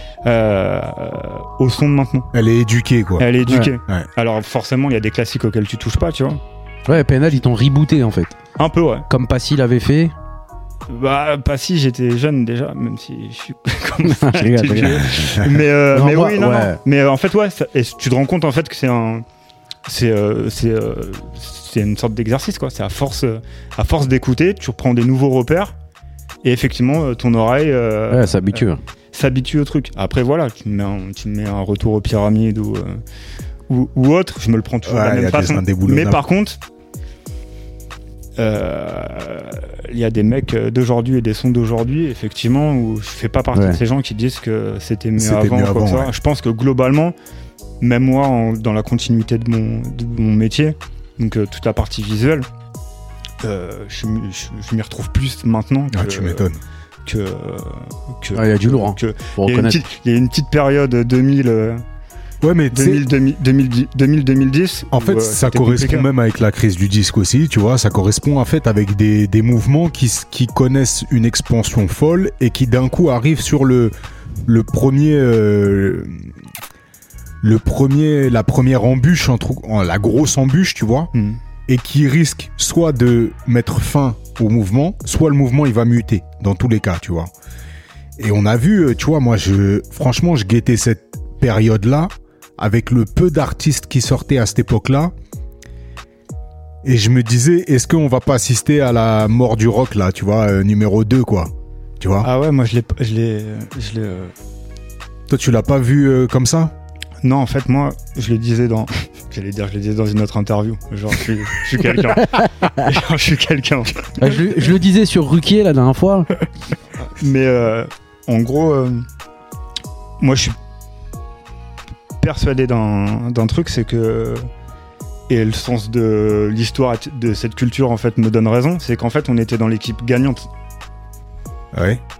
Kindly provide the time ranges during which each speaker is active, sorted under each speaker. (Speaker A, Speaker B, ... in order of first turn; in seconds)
Speaker A: 0.2-2.3, 3.2-6.4, 8.6-9.1, 10.9-19.2, 19.9-25.7, 26.4-33.0, 33.7-36.6, 38.4-47.1, 47.8-52.5, 53.4-56.5, 57.0-61.8, 62.7-66.1, 81.2-81.4, 102.2-104.3, 107.2-114.6, 117.1-119.0, 120.2-120.5, 122.2-124.5, 125.3-130.5
Speaker B: 2.3-3.3, 34.9-36.2, 45.2-46.1, 55.9-56.6, 62.4-63.1, 64.9-73.9, 74.5-76.3, 77.4-81.1, 81.7-87.3, 88.2-95.1, 96.8-102.3, 105.3-106.7, 131.7-132.0
Speaker C: 6.9-8.4, 9.1-10.1, 14.0-16.8, 28.1-28.8, 43.5-43.8, 58.3-59.8, 114.2-116.3